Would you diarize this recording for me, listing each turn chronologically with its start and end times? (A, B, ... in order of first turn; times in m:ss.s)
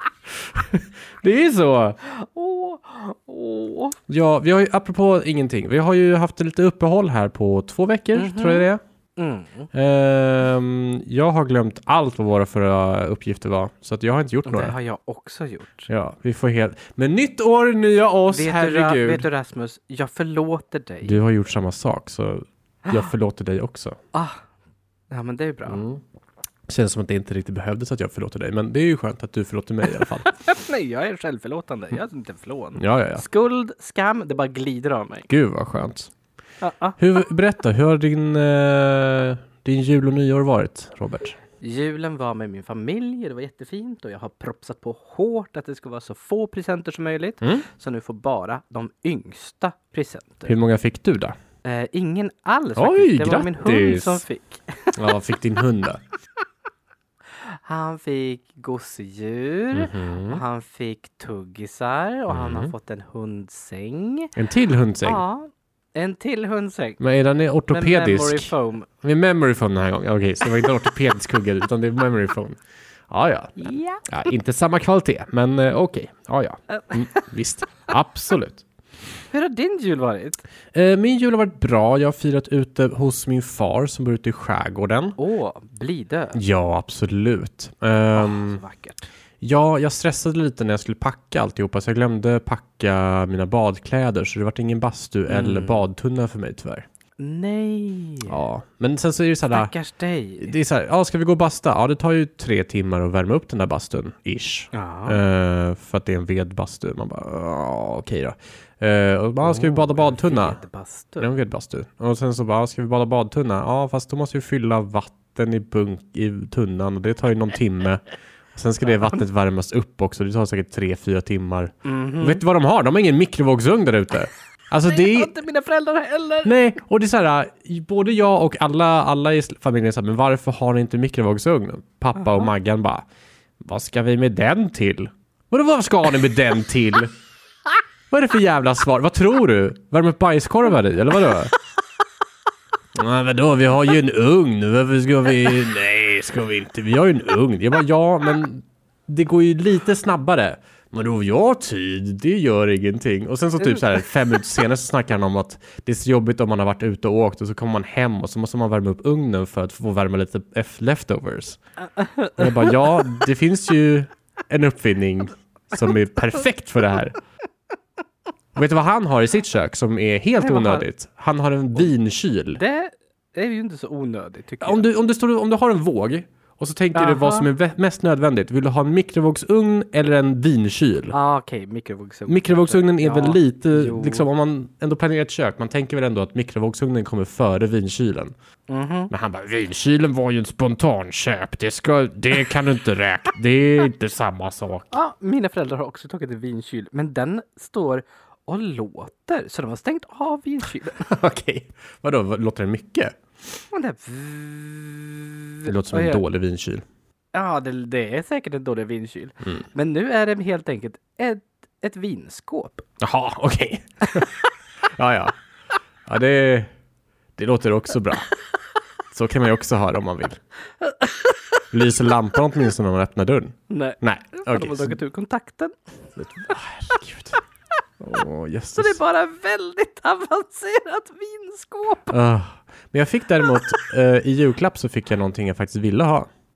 0:00.3-0:02.0 A
0:02.0-0:04.0 B
0:04.1-0:08.8 A
0:08.1-0:09.7 B
0:09.7-0:14.8 A
0:14.5-0:15.9 B
0:15.9-0:19.3 A
0:18.3-0:21.2 B
0:21.0-0:24.0 A
0:24.1-0:24.4 B
0:25.1-0:25.8 B
0:25.7-0:26.0 A
0:26.7-0:30.3 A
0:30.0-0:35.3 B
0:32.8-0:33.2 A
0:35.3-0:36.1 A
0:36.6-0:37.0 B
0:37.0-0:41.4 A
0:41.6-0:50.5 B
0:50.5-0:51.4 A
0:51.6-0:55.1 B
0:52.8-0:54.2 A
0:55.0-0:56.0 A
0:57.4-1:04.4 B
0:59.7-1:00.4 A
1:02.3-1:02.7 A
1:04.4-1:05.2 A
1:05.0-1:07.0 B
1:07.0-1:18.6 A
1:07.7-1:08.9 B
1:13.6-1:14.0 B
1:16.8-1:17.2 B
1:19.3-1:20.4 B
1:20.7-1:25.2 A
1:25.2-1:26.4 B
1:26.3-1:28.6 A
1:28.2-1:29.1 B
1:29.4-1:36.9 A
1:35.3-1:35.8 B
1:37.2-1:38.4 B
1:38.3-1:39.7 A
1:39.5-1:40.6 B
1:40.4-1:50.6 A
1:44.7-1:45.2 B
1:49.4-1:51.3 B
1:51.2-2:05.3 A
2:01.8-2:02.4 B
2:04.9-2:06.6 B
2:06.4-2:13.1 A
2:13.6-2:17.1 A
2:18.1-2:21.5 A
2:23.0-2:41.6 A
2:42.0-2:43.1 B
2:42.4-2:47.2 A
2:48.6-2:52.6 A
2:50.4-2:50.8 B
2:52.6-2:54.9 B
2:54.6-3:01.2 A
2:56.9-2:57.5 B
3:01.1-3:04.3 B
3:02.3-3:08.3 A
3:08.7-3:09.1 B
3:09.1-3:14.9 A
3:14.9-3:21.1 B
3:21.0-3:23.2 A
3:23.7-3:26.2 B
3:25.6-3:26.8 A
3:27.3-3:32.8 B
3:33.0-3:34.3 A
3:35.0-3:35.4 A
3:36.1-3:36.7 A
3:37.4-3:38.3 A
3:39.1-3:40.4 A
3:40.8-3:41.4 B
3:41.7-3:45.0 A
3:43.7-3:45.7 B
3:46.2-3:47.4 A
3:48.0-3:49.0 A
3:48.8-3:52.2 B
3:52.1-3:56.3 A